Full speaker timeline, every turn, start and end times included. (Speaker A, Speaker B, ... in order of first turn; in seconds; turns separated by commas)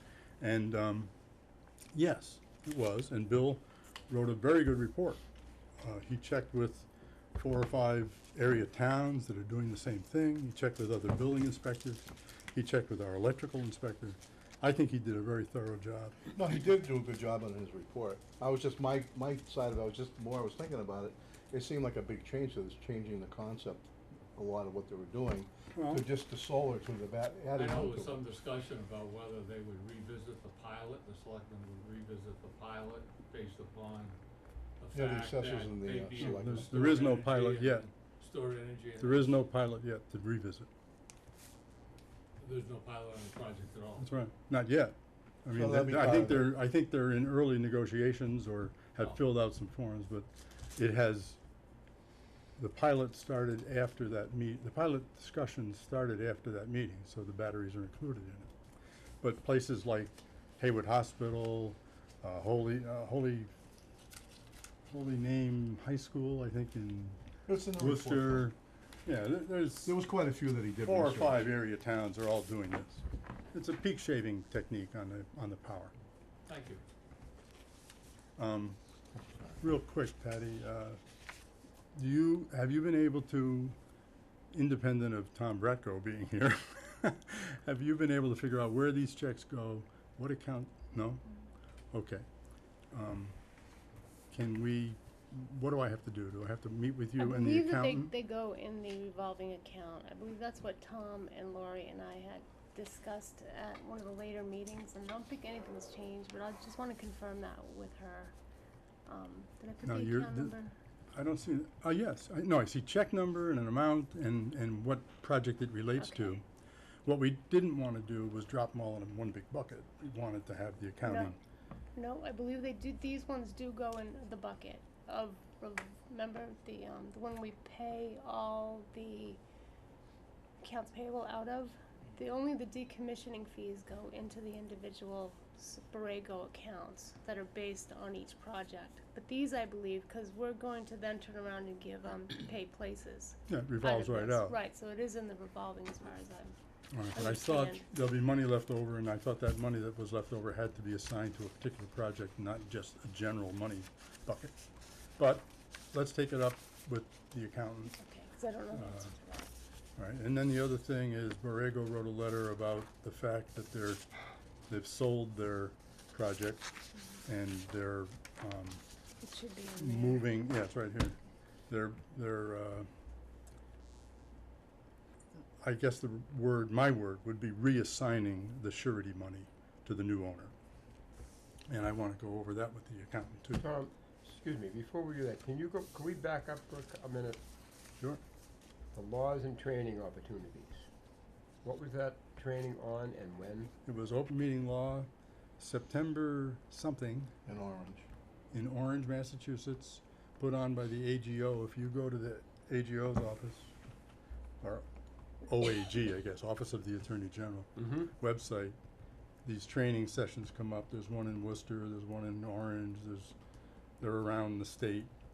Speaker A: 0.4-1.1, Speaker A: 1.9-5.2, Speaker A: 5.8-16.3, Speaker B: 16.3-28.3, Speaker A: 25.8-26.1, Speaker C: 27.5-34.2, Speaker C: 34.8-39.4, Speaker B: 34.9-37.0, Speaker A: 36.2-37.9, Speaker A: 39.0-40.7, Speaker C: 42.4-44.1, Speaker A: 44.0-51.4, Speaker B: 45.5-46.5, Speaker A: 52.6-58.5, Speaker A: 59.2-63.5, Speaker A: 64.9-67.2, Speaker B: 67.5-68.5, Speaker A: 67.8-70.0, Speaker B: 69.8-71.5, Speaker A: 70.9-75.9, Speaker C: 76.5-76.8, Speaker A: 78.4-78.8, Speaker B: 79.2-79.5, Speaker A: 79.6-81.0, Speaker A: 82.0-83.8, Speaker A: 84.5-91.2, Speaker A: 91.9-92.3, Speaker A: 92.9-93.4, Speaker A: 94.3-98.1, Speaker D: 97.2-108.3, Speaker D: 109.1-110.7, Speaker A: 109.8-110.5, Speaker A: 111.1-116.4, Speaker A: 117.0-121.4, Speaker D: 122.0-129.4, Speaker D: 130.6-146.6, Speaker A: 143.5-144.6, Speaker A: 146.9-154.6, Speaker D: 147.1-147.9, Speaker A: 155.2-158.0, Speaker D: 158.0-159.5, Speaker A: 158.7-159.1, Speaker A: 160.0-164.1, Speaker A: 164.7-166.7, Speaker A: 167.2-168.8, Speaker D: 169.2-170.2, Speaker A: 169.8-171.2, Speaker A: 171.7-172.9, Speaker A: 175.6-180.5, Speaker A: 181.7-183.7, Speaker E: 183.6-187.4, Speaker E: 188.9-190.9, Speaker E: 191.6-193.7, Speaker A: 193.9-197.3, Speaker B: 197.5-198.1, Speaker A: 198.5-203.7, Speaker A: 205.4-208.8, Speaker A: 209.4-213.3, Speaker A: 214.0-215.1